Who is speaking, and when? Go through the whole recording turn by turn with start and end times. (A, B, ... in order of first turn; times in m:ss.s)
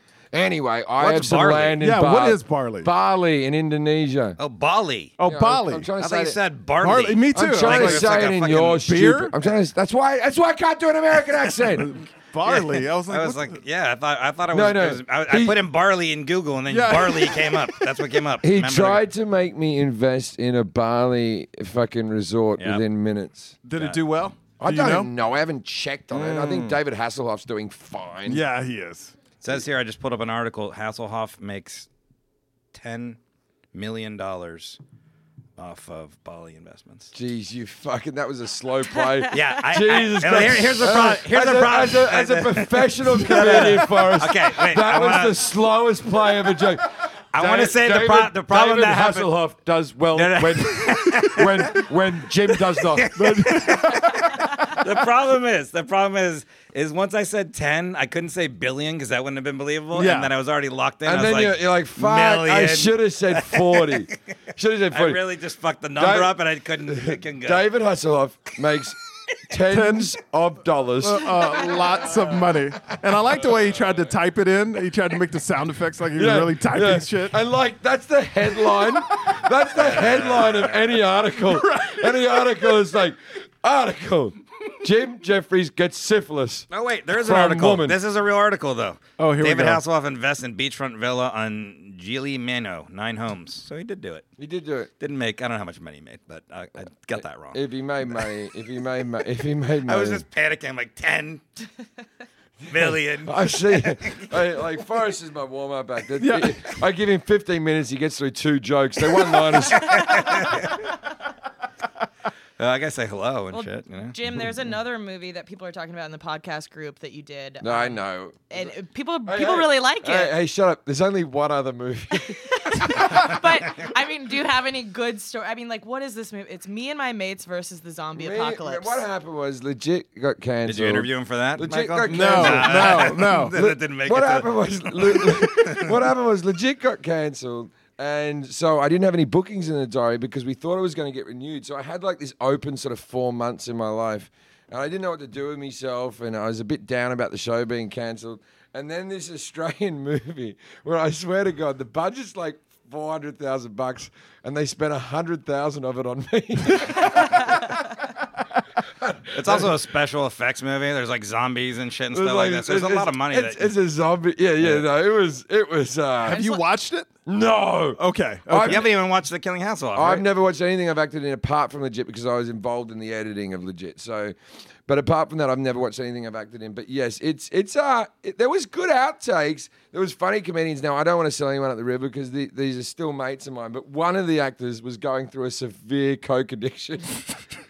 0:00.3-0:04.4 A
0:01.0-0:01.8 B
0:01.8-0:02.9 C
0:04.4-0:05.1 B
0:05.2-0:05.9 C
0:05.2-0:06.4 A
0:06.0-0:08.8 B
0:06.8-0:09.3 C
0:07.3-0:12.0 A
0:11.8-0:13.5 C
0:12.4-0:19.1 B
0:14.5-0:15.6 A
0:16.7-0:17.7 C
0:18.4-0:23.6 A
0:22.6-0:22.8 B
0:23.6-0:25.1 C
0:23.8-0:24.0 B
0:24.6-0:28.4 A
0:26.1-0:26.8 C
0:28.3-0:29.1 C
0:29.4-0:31.9 B
0:32.7-0:33.2 B
0:33.7-0:34.8 B
0:35.6-0:37.1 B
0:37.1-0:53.7 A
0:39.3-0:45.5 B
0:47.3-0:49.4 B
0:50.1-0:51.9 B
0:52.5-1:04.1 B
0:53.1-0:54.6 C
0:59.9-1:00.3 C
1:01.0-1:05.2 A
1:04.9-1:07.7 B
1:06.0-1:12.1 A
1:09.7-1:10.1 C
1:11.0-1:17.4 C
1:16.2-1:28.0 A
1:19.8-1:20.8 B
1:21.4-1:22.7 C
1:26.7-1:34.2 B
1:29.2-1:29.8 C
1:34.4-1:34.9 A
1:35.0-1:37.6 B
1:37.5-1:40.2 A
1:39.8-1:41.4 B
1:42.7-1:50.4 A
1:42.7-1:44.4 B
1:46.2-1:46.6 C
1:49.6-1:50.9 B
1:52.6-1:54.2 B
1:53.5-2:00.4 D
1:57.6-1:58.7 A
1:59.3-2:03.1 A
2:02.1-2:09.0 D
2:08.2-2:37.7 A
2:10.6-2:16.0 B
2:12.1-2:13.6 C
2:39.0-2:39.8 A
2:39.3-2:43.8 B
2:42.1-2:46.4 A
2:46.2-2:47.1 C
2:46.3-2:46.6 D
2:47.3-2:48.9 A
2:48.0-2:48.9 C
2:48.6-2:50.3 B
2:50.0-2:54.4 A
2:54.9-3:07.4 A